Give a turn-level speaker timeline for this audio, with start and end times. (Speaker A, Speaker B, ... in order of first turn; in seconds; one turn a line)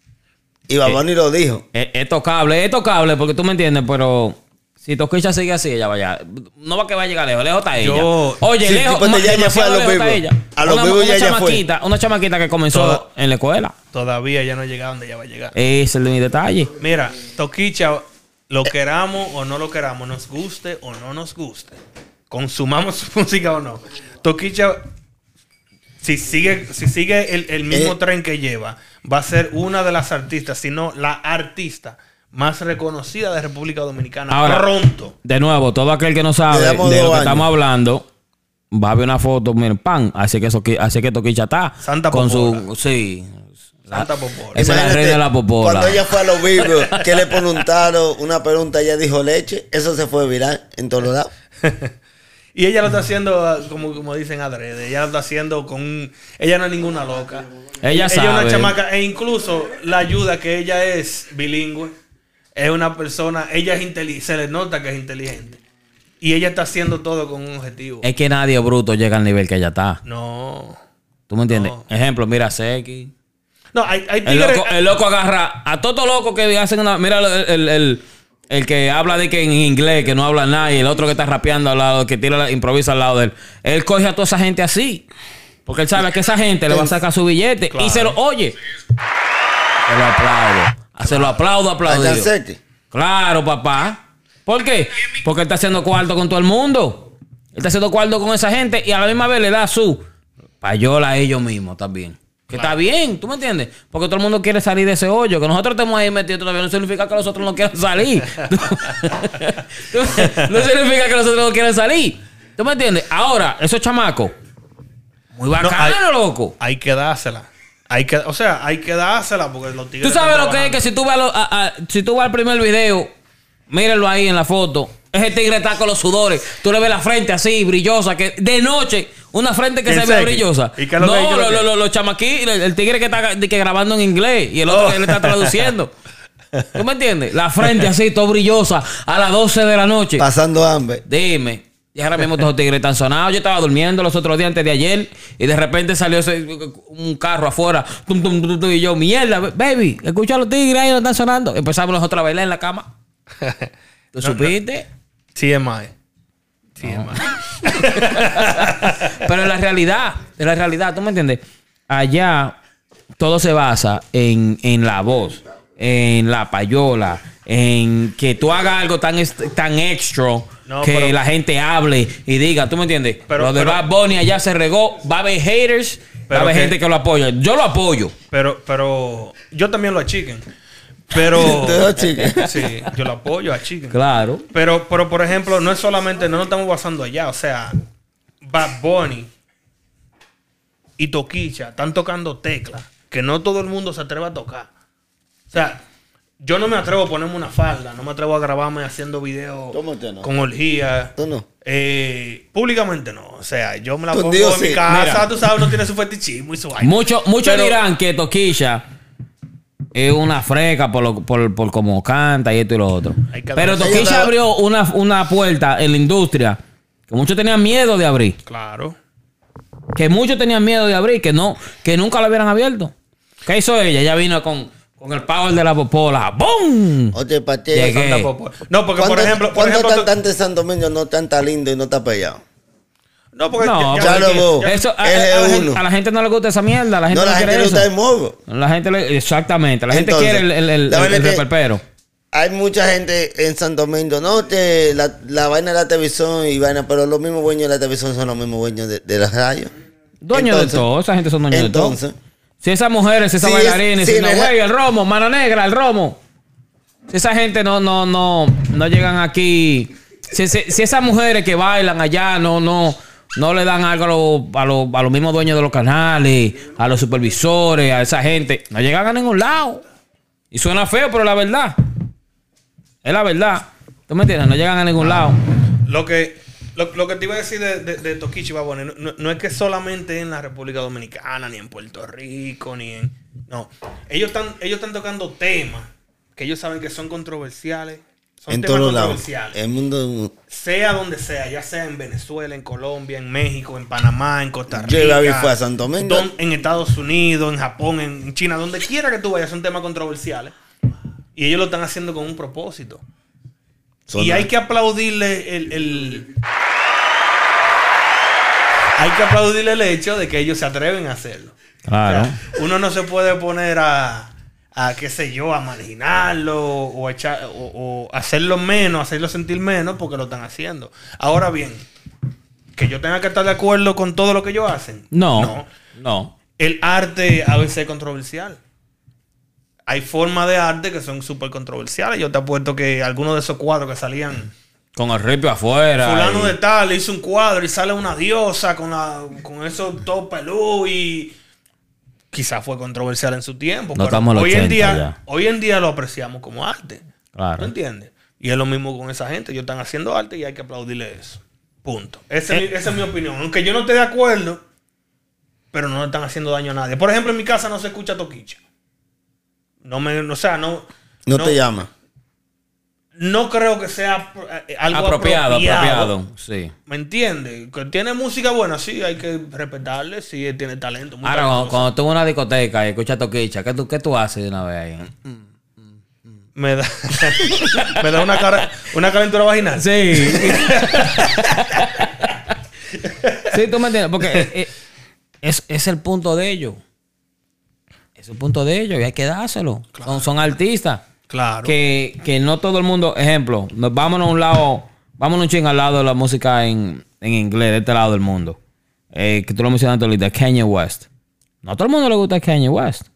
Speaker A: 0.7-1.6
Speaker B: 1.7-13.7
Speaker C: 7.8-8.4
Speaker A: 8.6-11.6
Speaker C: 12.7-13.0
Speaker C: 13.9-15.5
Speaker B: 15.6-16.7
Speaker C: 16.8-21.8
Speaker C: 22.3-24.8
Speaker C: 26.0-35.1
Speaker A: 27.7-28.0
Speaker B: 34.3-34.7
Speaker B: 35.2-38.1
Speaker A: 36.5-37.5
Speaker B: 38.7-46.0
Speaker C: 41.8-42.7
Speaker C: 43.9-44.6
Speaker A: 44.5-51.3
Speaker C: 51.6-51.9
Speaker C: 52.5-61.9
Speaker B: 57.8-58.8
Speaker C: 62.6-65.6
Speaker C: 66.2-68.1
Speaker B: 68.0-70.0
Speaker C: 70.0-70.8
Speaker B: 71.3-73.1
Speaker C: 71.5-71.8
Speaker C: 73.7-74.8
Speaker B: 74.2-85.1
Speaker B: 85.7-88.5
Speaker A: 86.7-87.0
Speaker C: 87.7-88.2
Speaker B: 89.9-92.3
Speaker C: 91.0-91.4
Speaker A: 91.9-92.6
Speaker B: 92.9-97.0
Speaker B: 97.5-100.0
Speaker B: 100.6-114.3
Speaker C: 108.3-108.9
Speaker C: 110.2-110.5
Speaker B: 115.3-116.5
Speaker C: 115.6-116.0
Speaker C: 116.6-120.8
Speaker B: 120.0-123.1
Speaker B: 123.7-135.9
Speaker C: 129.9-131.7
Speaker C: 134.7-135.7
Speaker C: 136.5-136.8
Speaker B: 136.8-140.3
Speaker C: 137.6-137.9
Speaker A: 140.2-141.0
Speaker B: 141.1-152.9
Speaker C: 153.4-153.7
Speaker B: 154.1-154.9
Speaker C: 154.2-154.6
Speaker C: 155.3-155.9
Speaker C: 156.8-159.2
Speaker B: 156.8-162.6
Speaker B: 163.2-178.1
Speaker C: 170.7-171.2
Speaker C: 173.3-173.8
Speaker C: 176.3-176.8
Speaker C: 178.3-180.4
Speaker C: 181.1-184.0
Speaker A: 181.3-182.6
Speaker B: 182.0-182.7
Speaker B: 183.9-184.4
Speaker C: 184.5-187.8
Speaker C: 188.4-189.3
Speaker C: 191.0-194.7
Speaker C: 195.5-195.8
Speaker C: 196.4-207.8
Speaker A: 199.7-200.3
Speaker A: 201.2-201.5
Speaker A: 204.1-204.9
Speaker B: 204.9-205.3
Speaker B: 206.8-208.8
Speaker B: 209.9-216.6
Speaker C: 213.3-214.2
Speaker A: 213.8-214.3
Speaker B: 217.1-218.4
Speaker C: 218.5-219.0
Speaker B: 219.9-222.9
Speaker B: 223.4-227.2
Speaker A: 227.1-228.0
Speaker B: 227.7-228.3
Speaker C: 227.8-230.1
Speaker A: 229.0-232.4
Speaker C: 233.3-234.9
Speaker B: 233.6-237.9
Speaker A: 233.9-235.8
Speaker A: 237.1-238.4
Speaker B: 238.5-241.8
Speaker A: 239.9-241.4
Speaker A: 242.3-249.7
Speaker B: 250.2-252.0
Speaker A: 250.3-250.8
Speaker A: 251.5-252.2
Speaker B: 252.6-256.2
Speaker A: 253.4-254.5
Speaker B: 257.1-269.8
Speaker B: 270.5-271.8
Speaker B: 273.0-275.4
Speaker C: 275.0-289.6
Speaker A: 288.5-290.3
Speaker C: 290.5-300.5
Speaker A: 294.7-296.3
Speaker C: 301.4-303.0
Speaker A: 304.1-304.5
Speaker C: 304.1-306.3
Speaker C: 309.0-311.6
Speaker B: 311.9-312.4
Speaker C: 312.1-321.9
Speaker C: 322.8-325.7
Speaker B: 325.1-326.4
Speaker C: 326.6-328.6
Speaker C: 329.9-334.5
Speaker B: 335.0-336.6
Speaker C: 336.0-341.3
Speaker C: 342.3-347.0
Speaker B: 344.0-345.2
Speaker B: 347.4-347.7
Speaker C: 347.6-354.6
Speaker C: 355.7-358.6
Speaker C: 359.8-361.6
Speaker A: 361.3-361.9
Speaker C: 363.2-366.2
Speaker B: 364.9-366.7
Speaker C: 366.9-371.9
Speaker B: 371.2-375.5
Speaker C: 376.6-381.8
Speaker B: 377.7-378.0
Speaker B: 379.8-382.5
Speaker C: 383.0-383.6
Speaker B: 383.5-384.7
Speaker B: 385.4-386.8
Speaker B: 388.2-391.1
Speaker C: 389.9-390.3
Speaker C: 391.3-391.7
Speaker B: 391.6-398.6
Speaker B: 399.1-401.1
Speaker B: 401.6-403.1